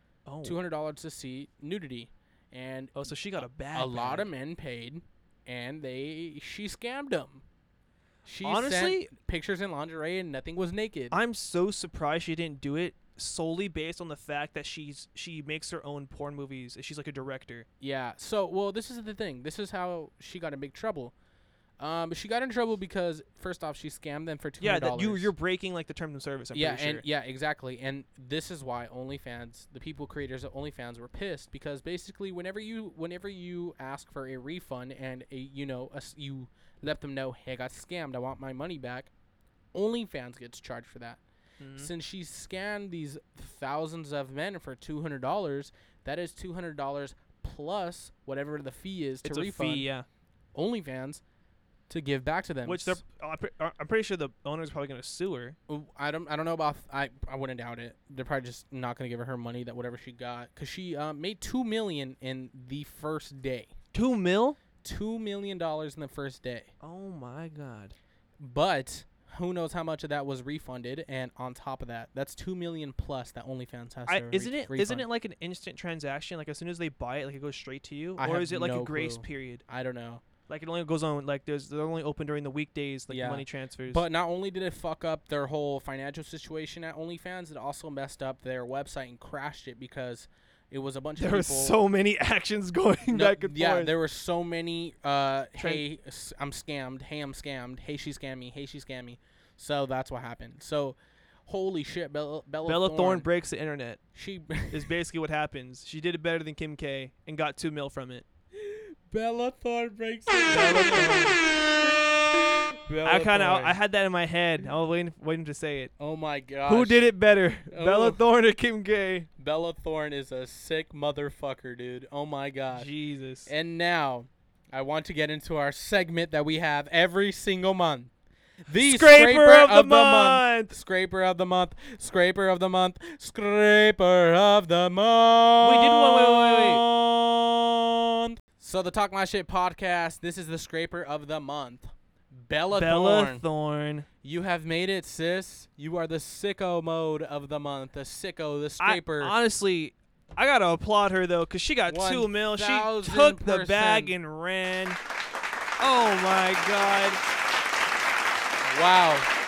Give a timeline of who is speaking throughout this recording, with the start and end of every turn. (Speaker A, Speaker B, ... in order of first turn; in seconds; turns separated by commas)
Speaker A: 0.3-0.6, Speaker B: 0.4-7.4, Speaker A: 3.0-4.3, Speaker B: 8.2-11.2, Speaker A: 8.4-9.1, Speaker A: 11.1-17.7, Speaker B: 17.8-21.1, Speaker B: 21.8-25.3, Speaker A: 24.6-27.0, Speaker B: 26.5-39.1, Speaker B: 39.7-41.2, Speaker A: 41.6-41.9, Speaker B: 41.8-49.9, Speaker A: 49.2-50.1, Speaker B: 50.5-51.2, Speaker B: 51.9-53.0, Speaker A: 52.6-55.6, Speaker B: 55.7-63.7, Speaker A: 63.9-64.6, Speaker B: 64.8-66.7, Speaker A: 66.8-68.0, Speaker B: 68.4-75.1, Speaker A: 74.1-79.6, Speaker B: 78.2-80.2, Speaker A: 80.5-84.0, Speaker B: 83.1-91.8, Speaker A: 91.2-93.9, Speaker B: 93.1-103.3, Speaker A: 95.6-95.8, Speaker A: 102.7-104.0, Speaker B: 104.2-104.9, Speaker A: 104.7-108.3, Speaker B: 108.6-111.5, Speaker A: 110.5-111.4, Speaker B: 112.3-113.8, Speaker A: 113.0-115.9, Speaker B: 116.0-117.1, Speaker A: 116.7-119.3, Speaker B: 117.7-118.2, Speaker B: 119.4-122.9, Speaker A: 122.7-123.5, Speaker B: 123.5-128.1, Speaker B: 128.7-143.4, Speaker A: 128.8-130.8, Speaker A: 135.6-136.8, Speaker A: 142.7-144.1, Speaker B: 144.2-149.3, Speaker A: 148.8-155.0, Speaker B: 151.9-154.1, Speaker A: 155.8-157.2, Speaker B: 158.6-159.3